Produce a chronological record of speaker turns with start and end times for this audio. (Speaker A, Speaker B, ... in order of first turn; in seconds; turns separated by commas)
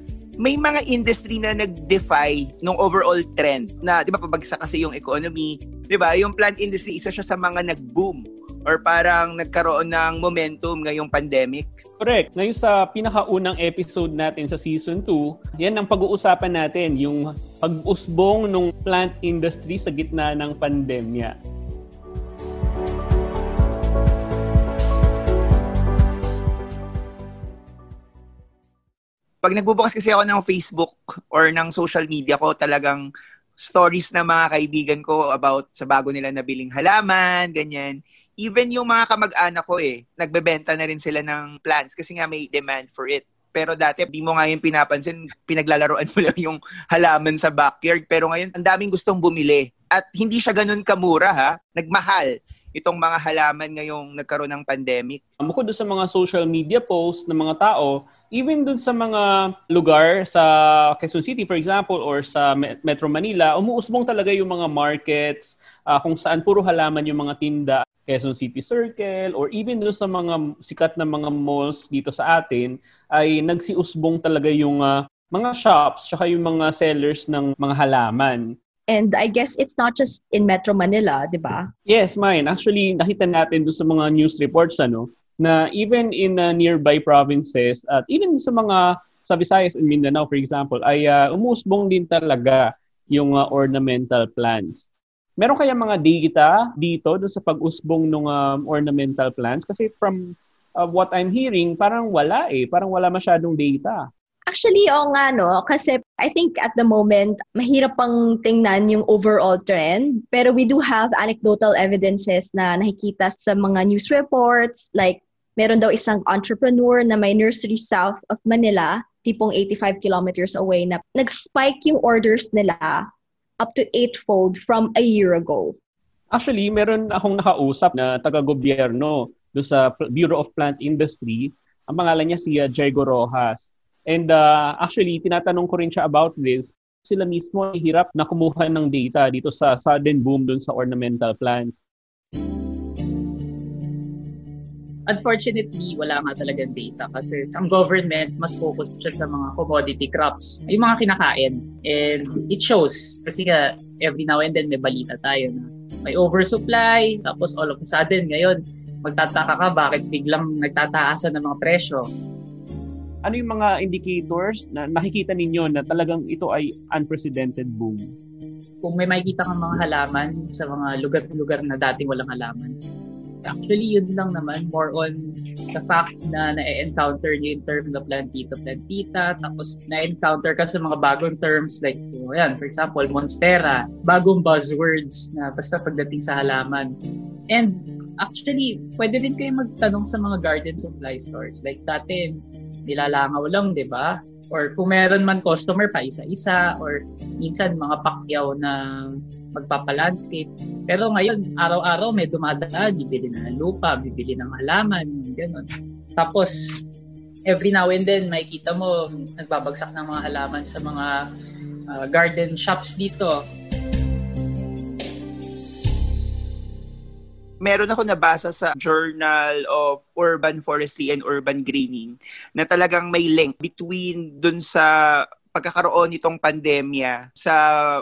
Speaker A: 0.4-11.7, Speaker B: 12.0-21.3, Speaker A: 29.4-33.0, Speaker A: 33.6-55.2, Speaker B: 55.4-78.5, Speaker C: 78.9-81.7, Speaker B: 81.9-94.9, Speaker B: 95.4-104.0, Speaker C: 104.5-123.0, Speaker C: 123.6-125.7, Speaker B: 126.3-141.8, Speaker D: 145.1-155.6, Speaker D: 156.2-158.6, Speaker D: 159.1-162.0, Speaker B: 163.2-168.1, Speaker D: 168.9-172.7, Speaker D: 173.4-175.1, Speaker D: 175.8-186.9, Speaker D: 187.5-192.3, Speaker D: 192.9-198.8, Speaker D: 199.5-205.7, Speaker D: 206.2-206.6, Speaker D: 207.5-211.2, Speaker D: 211.9-213.3, Speaker A: 217.6-224.9, Speaker A: 225.5-227.6